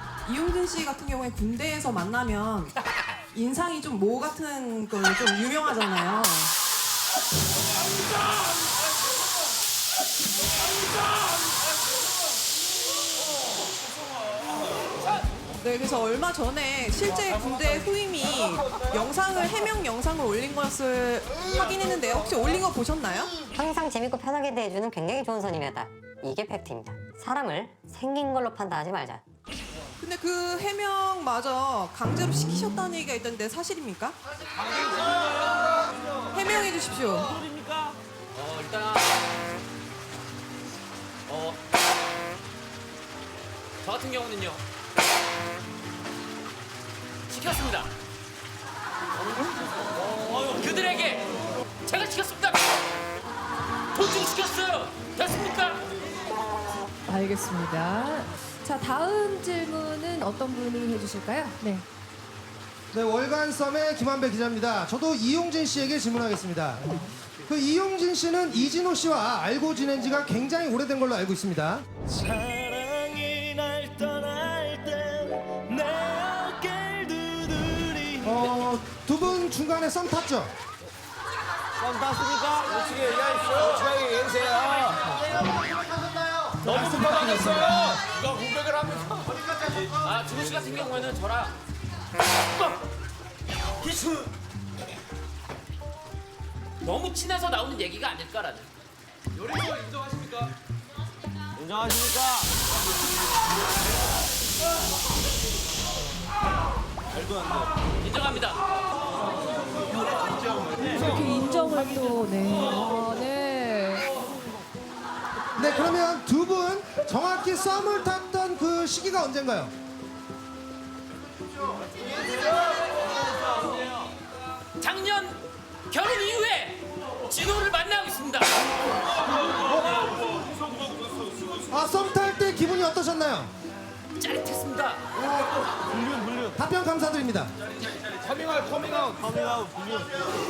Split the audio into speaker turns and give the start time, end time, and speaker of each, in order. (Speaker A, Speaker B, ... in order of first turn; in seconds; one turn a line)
Speaker A: 0.2-2.7
Speaker A: 3.3-6.5
Speaker A: 15.6-23.4
Speaker B: 23.5-29.2
Speaker A: 30.0-34.2
Speaker A: 36.3-37.4
Speaker C: 37.5-37.9
Speaker D: 38.3-39.1
Speaker D: 41.3-41.6
Speaker D: 43.8-44.6
Speaker D: 47.3-47.9
Speaker D: 50.3-51.3
Speaker D: 51.8-52.7
Speaker D: 53.9-55.8
Speaker E: 57.1-61.9
Speaker F: 62.9-67.0
Speaker F: 67.5-71.9
Speaker C: 72.1-78.4
Speaker F: 78.2-80.5
Speaker C: 81.8-85.2
Speaker F: 86.4-87.8
Speaker C: 86.7-88.1
Speaker D: 88.2-91.6
Speaker D: 96.8-98.7
Speaker D: 100.0-100.2
Speaker C: 101.6-102.5
Speaker D: 108.0-108.6
Speaker E: 110.8-114.2
Speaker F: 115.6-119.7
Speaker D: 124.8-128.6
Speaker F: 131.7-133.5
Speaker D: 134.2-135.0
Speaker C: 136.1-136.5
Speaker F: 136.6-137.5
Speaker C: 138.0-140.2